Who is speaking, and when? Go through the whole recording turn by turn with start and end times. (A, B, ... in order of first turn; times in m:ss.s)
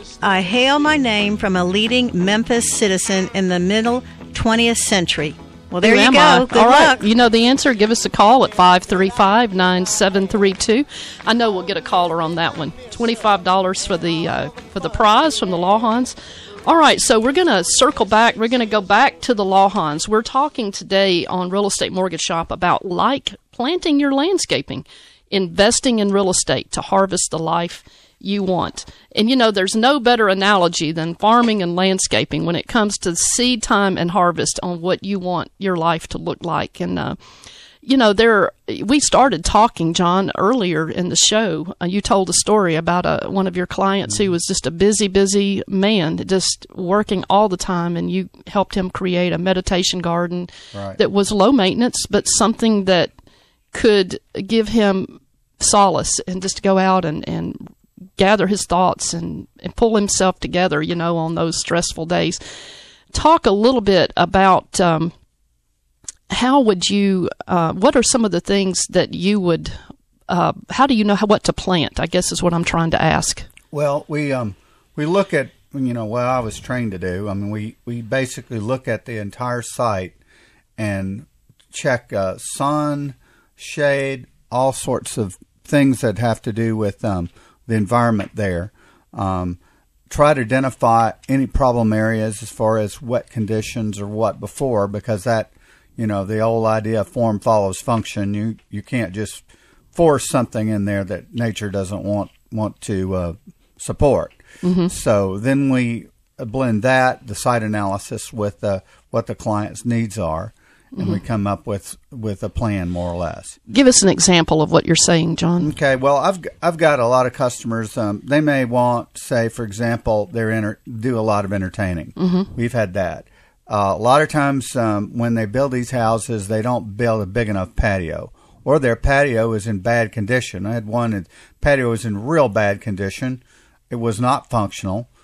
0:00.2-0:07.1 A
0:05.8-0:37.2 B
0:37.8-0:53.1 B
0:50.7-0:51.0 C
0:53.7-1:02.4 B
1:03.1-1:05.1 B
1:06.3-1:09.8 B
1:10.3-1:13.5 B
1:13.7-1:20.2 C
1:20.8-1:29.6 C
1:30.1-1:53.6 C
1:44.6-1:44.9 B
1:50.9-1:51.2 B
1:53.7-1:55.7 B
1:55.6-2:15.1 C
2:02.2-2:02.5 B